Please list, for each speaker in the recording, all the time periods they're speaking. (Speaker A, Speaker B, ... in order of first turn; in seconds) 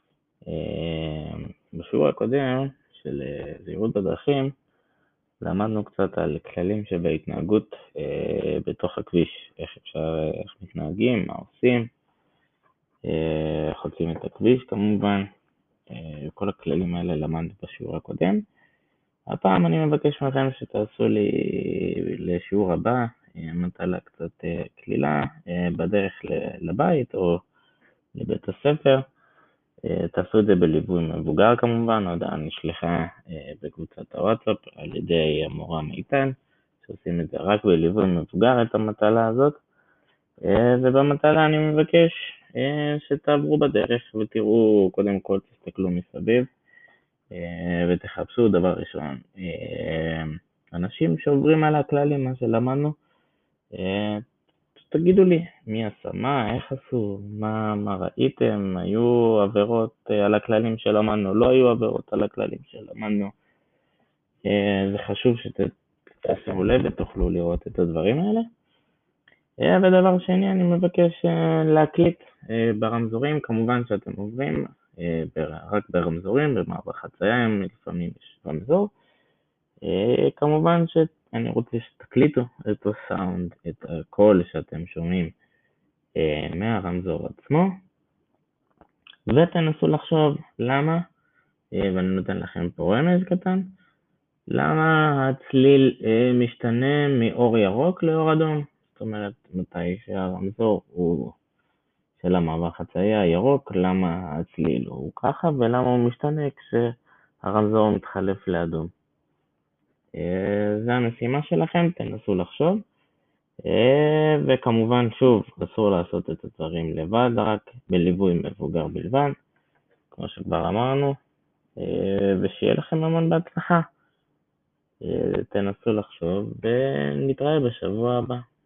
Speaker A: 0.5-4.5, 5.4-11.9, 13.1-15.3, 15.9-18.4, 19.3-27.4, 28.1-29.0, 29.9-39.6, 40.4-46.5, 47.3-53.0, 53.8-54.2, 54.8-63.3, 64.5-68.5, 69.6-78.9, 79.8-85.3, 86.2-87.8, 89.3-91.0, 91.8-93.6, 94.5-101.4, 102.2-106.8, 107.4-108.9, 110.2-112.8, 113.7-119.4, 120.1-121.2, 121.8-123.9, 125.0-128.4